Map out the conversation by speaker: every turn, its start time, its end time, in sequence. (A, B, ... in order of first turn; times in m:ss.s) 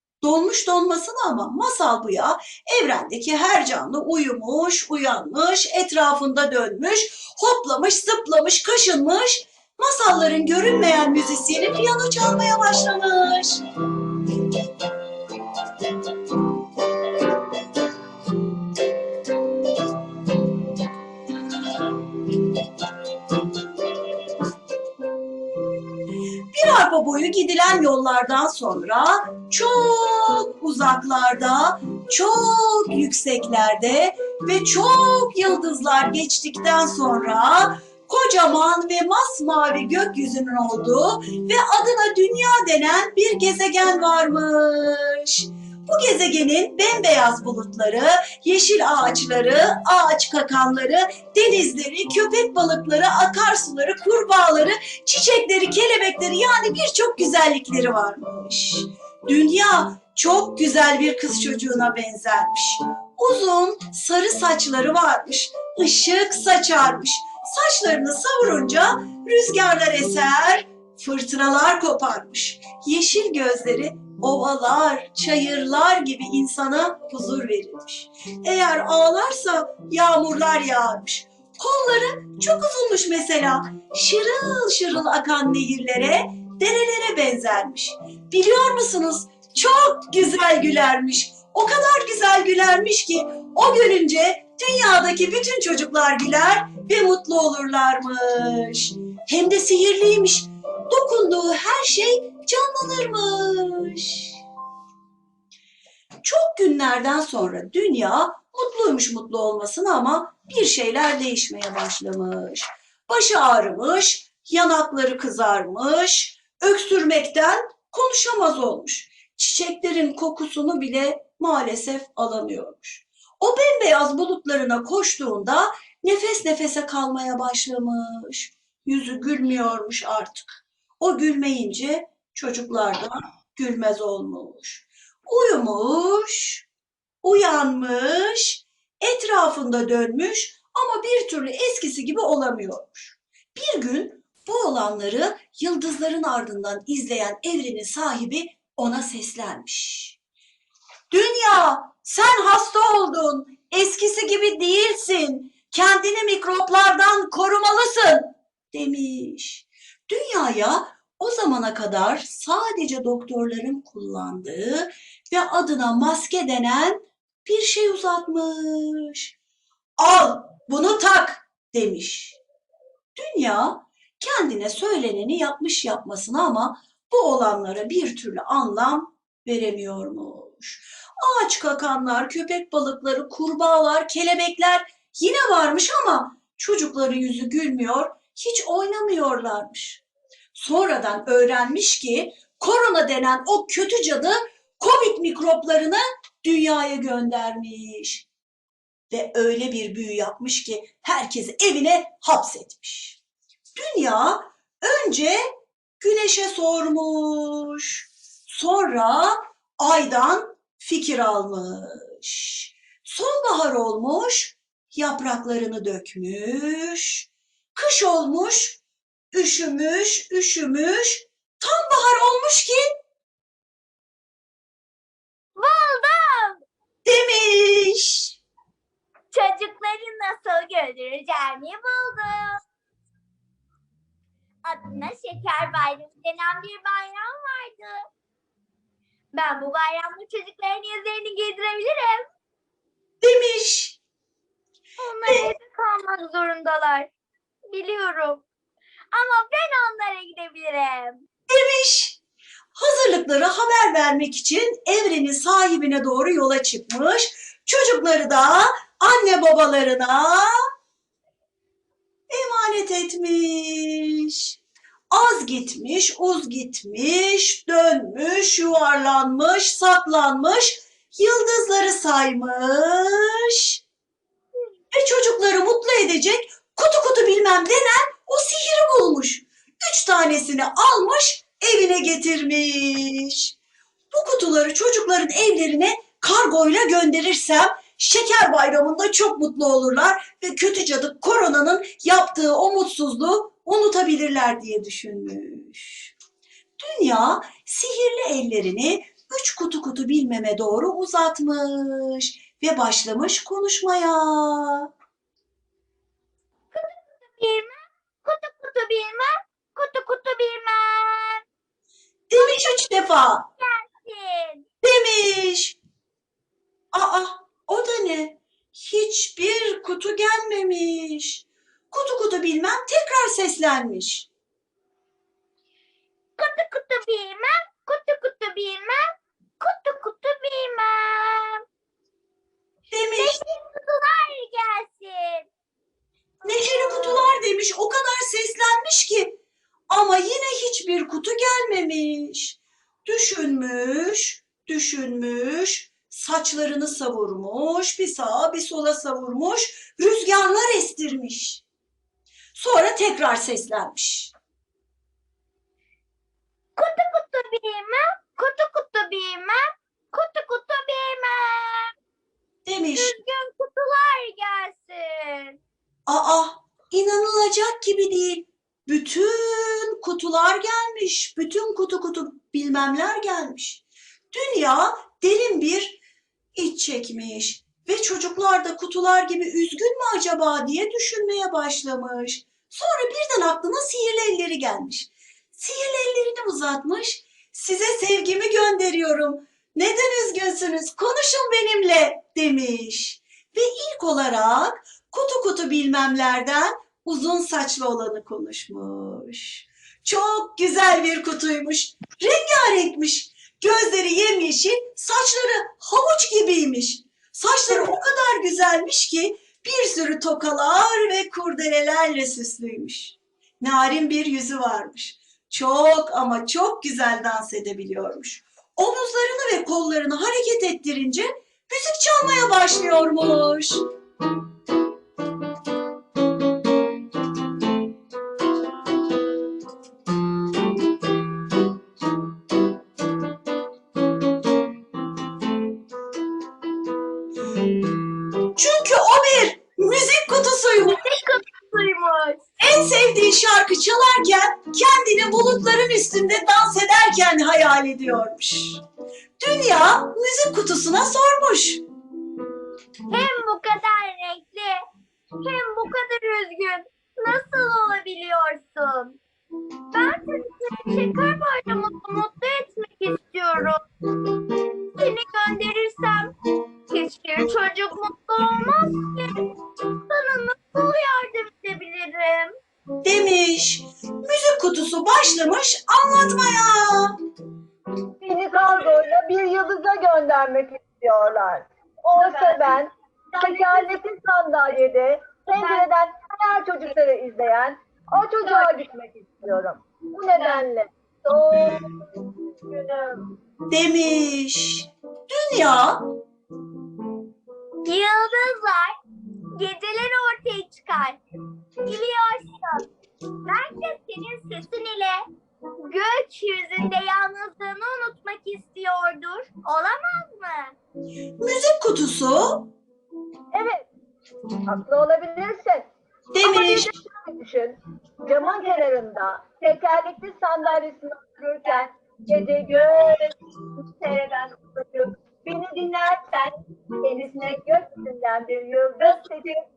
0:00.2-0:13.6 A
0:26.5-1:44.4 A
1:46.2-2:10.5 A
2:11.0-2:16.7 A
2:17.2-2:30.2 A
2:31.1-2:49.3 A
2:50.0-2:52.4 A
2:53.2-3:10.0 A
3:10.5-3:18.3 A
3:19.1-3:23.2 A
3:23.8-3:25.4 A
3:26.0-3:38.8 A
3:39.3-3:42.9 A
3:45.6-3:46.6 B
3:47.0-3:48.4 A
3:49.3-3:52.6 B
3:54.6-3:58.0 B
3:59.3-4:02.2 B
4:03.2-4:04.0 A
4:05.0-4:07.1 B
4:07.7-4:08.4 B
4:09.1-4:11.2 B
4:11.5-4:12.2 A
4:12.7-4:20.5 A
4:22.3-4:24.6 A
4:25.1-4:33.8 A
4:34.9-4:43.6 A
4:44.1-4:56.1 A
4:56.8-5:04.9 A
5:06.7-5:11.4 B
5:12.3-5:13.4 A
5:12.3-5:14.6 B
5:14.8-5:15.8 A
5:16.9-5:24.3 A
5:26.4-5:29.0 B
5:29.6-5:31.6 B
5:32.9-5:33.4 A
5:33.2-5:35.5 B
5:36.4-5:39.4 A
5:39.9-5:51.6 A
5:52.5-5:54.3 A
5:56.8-6:01.9 B
6:02.6-6:03.2 A
6:02.9-6:05.6 B
6:06.1-6:16.0 A
6:16.5-7:03.8 A
7:18.5-7:21.0 A
7:20.8-7:22.4 B
7:22.6-7:28.8 A
7:29.4-7:31.8 A
7:33.1-7:34.8 B
7:35.4-7:39.2 B
7:39.9-7:43.8 B
7:45.0-7:46.3 B
7:46.9-7:49.4 B
7:50.1-7:52.5 B
7:53.0-7:57.2 A
7:58.2-8:11.9 C
8:13.7-8:16.1 A
8:17.8-8:18.9 B
8:19.6-8:21.2 B
8:21.8-8:22.9 B
8:23.4-8:25.2 B
8:25.8-8:30.8 B
8:31.4-8:32.7 A
8:33.5-8:33.9 C
8:34.6-8:35.9 C
8:36.3-8:36.9 A
8:36.5-8:43.3 C
8:44.0-8:44.4 C
8:45.0-8:46.5 C
8:47.0-8:49.6 C